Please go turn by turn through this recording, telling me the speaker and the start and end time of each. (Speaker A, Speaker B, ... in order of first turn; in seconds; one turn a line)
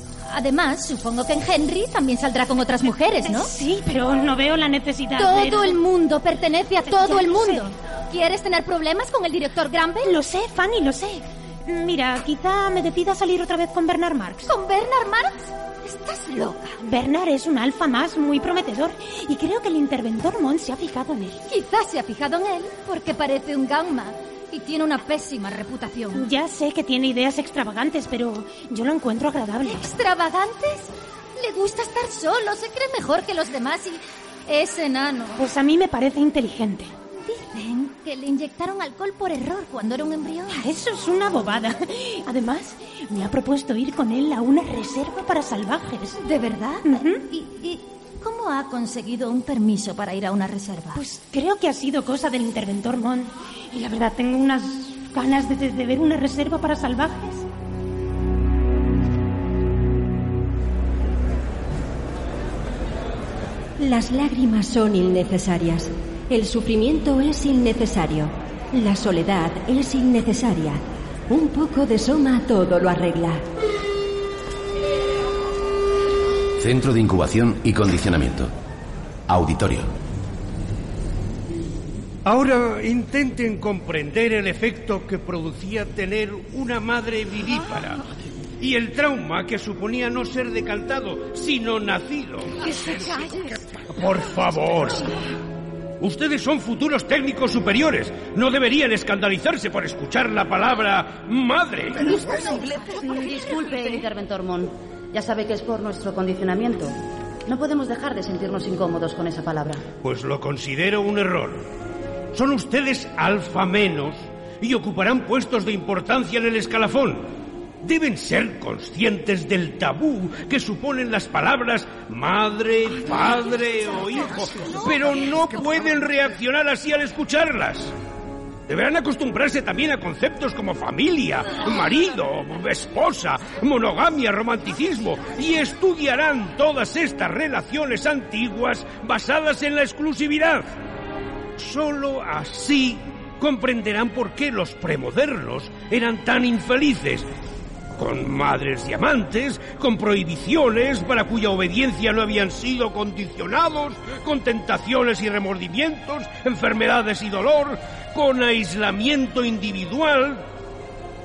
Speaker A: 0.3-3.5
Speaker B: 3.0-5.8
Speaker A: 5.2-10.1
Speaker B: 6.8-7.7
Speaker B: 10.0-14.5
Speaker A: 14.4-16.8
Speaker B: 16.8-21.4
Speaker A: 21.5-26.3
Speaker B: 26.1-29.9
Speaker A: 29.6-35.4
Speaker B: 35.4-36.9
Speaker A: 37.2-40.6
Speaker B: 40.5-46.2
Speaker A: 46.1-51.0
Speaker B: 46.8-47.2
Speaker B: 50.9-57.5
Speaker C: 63.8-73.4
Speaker D: 76.6-78.5
Speaker D: 79.3-79.9
Speaker E: 82.2-88.0
Speaker E: 88.6-93.2
Speaker E: 93.9-95.1
Speaker E: 96.0-102.2
Speaker F: 102.0-106.9
Speaker F: 107.5-109.8
Speaker E: 110.0-111.6
Speaker E: 112.3-117.3
Speaker E: 117.8-127.9
Speaker E: 128.7-140.7
Speaker E: 141.6-147.3
Speaker E: 148.0-160.4